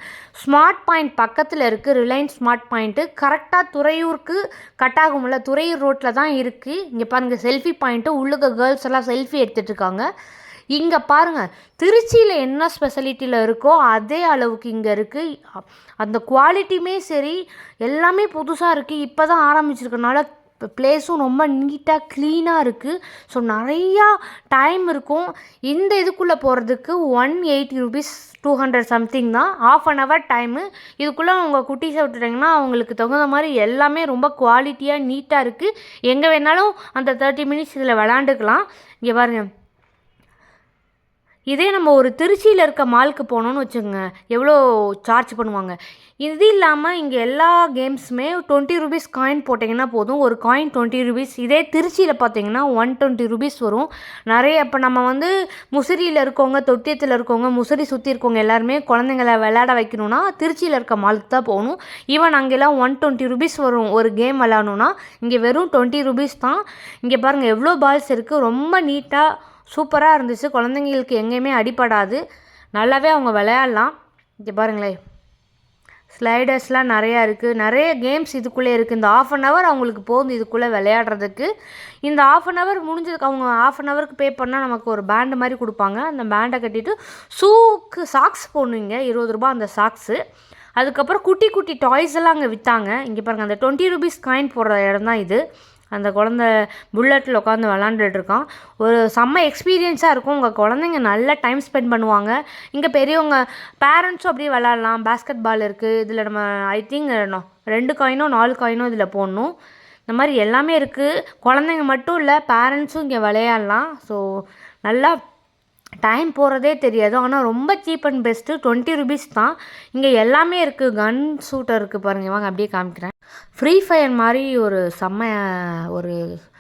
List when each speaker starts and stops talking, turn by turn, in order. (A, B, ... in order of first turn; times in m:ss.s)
0:00.4-0:10.0 A
0:10.7-0:39.5 A
0:41.5-1:12.2 A
1:12.8-1:15.0 A
1:16.1-1:21.5 A
1:22.0-1:30.2 A
1:30.8-1:35.4 A
1:35.9-1:49.5 A
1:50.1-1:55.2 A
1:56.0-2:06.2 A